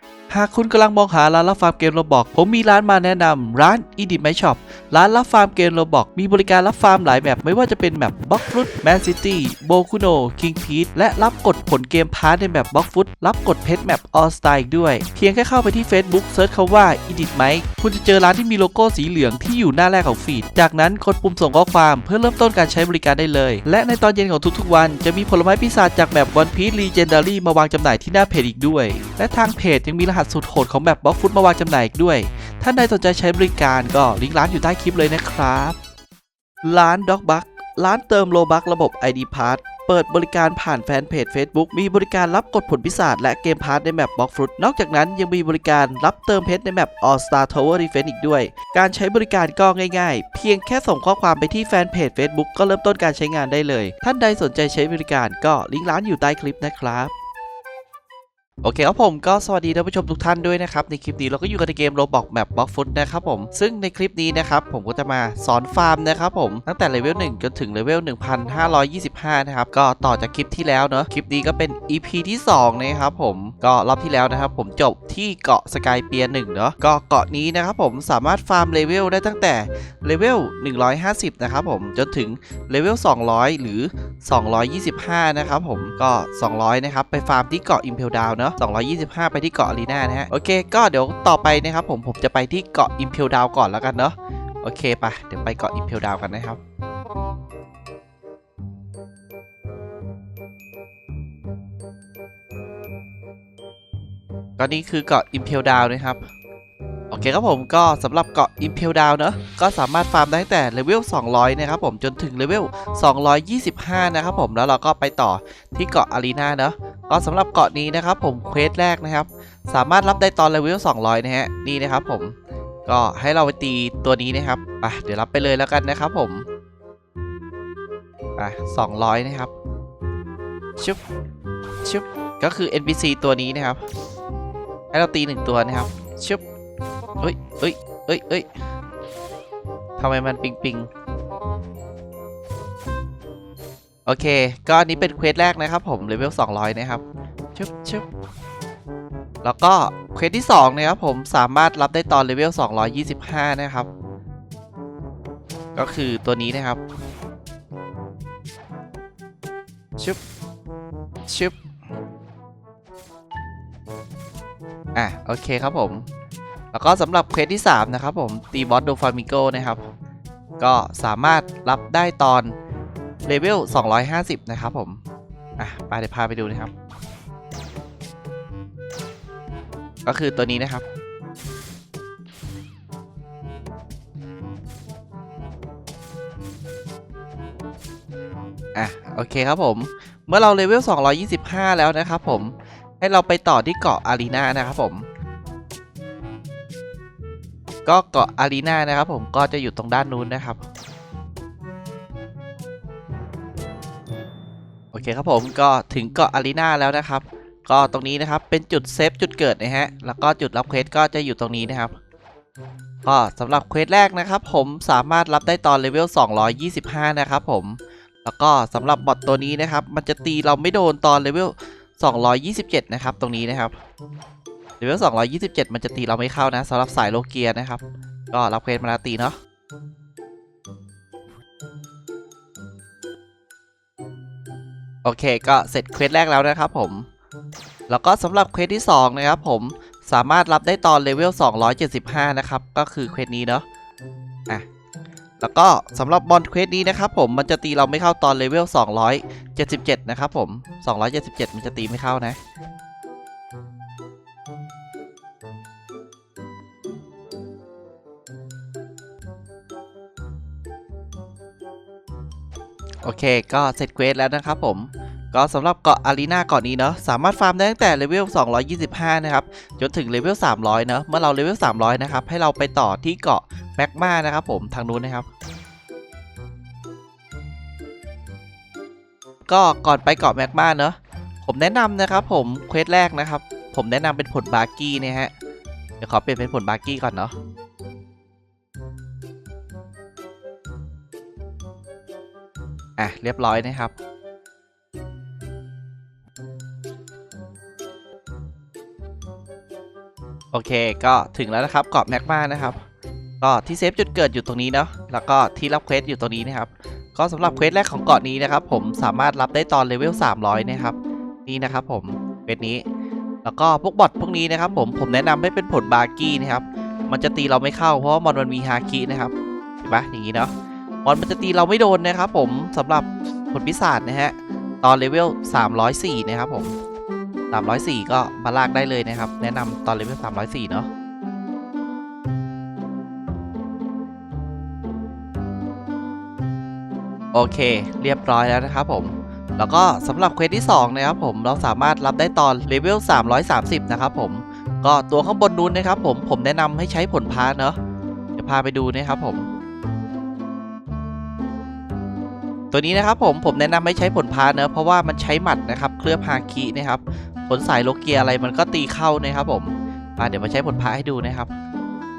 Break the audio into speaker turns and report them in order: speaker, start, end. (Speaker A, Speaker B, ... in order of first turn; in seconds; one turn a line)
Speaker A: 0.3-35.8
Speaker A: 36.6-57.1
Speaker A: 58.6-96.6
Speaker A: 104.6-106.2
Speaker A: 107.1-122.3
Speaker A: 122.8-126.5
Speaker A: 128.4-129.5
Speaker A: 131.8-133.8
Speaker A: 134.9-136.4
Speaker A: 137.2-138.5
Speaker A: 140.0-140.9
Speaker A: 144.1-147.0
Speaker A: 147.5-148.1
Speaker A: 149.4-153.9
Speaker A: 155.8-156.8
Speaker A: 161.3-161.6
Speaker A: 164.9-166.0
Speaker A: 166.7-169.8
Speaker A: 170.6-172.5
Speaker A: 173.2-175.0
Speaker A: 175.6-176.7
Speaker A: 180.0-180.8
Speaker A: 188.7-195.1
Speaker A: 197.8-200.6
Speaker A: 204.9-211.9
Speaker A: 213.0-223.7
Speaker A: 224.8-229.3
Speaker A: 235.0-237.1
Speaker A: 237.9-243.6
Speaker A: 245.4-252.3
Speaker A: 263.0-275.3
Speaker A: 279.4-285.3
Speaker A: 286.0-287.3
Speaker A: 293.0-293.9
Speaker A: 300.5-302.8
Speaker A: 303.4-312.8
Speaker A: 313.4-320.5
Speaker A: 321.0-326.7
Speaker A: 327.5-330.9
Speaker A: 337.3-347.8
Speaker A: 348.4-349.5
Speaker A: 352.7-361.5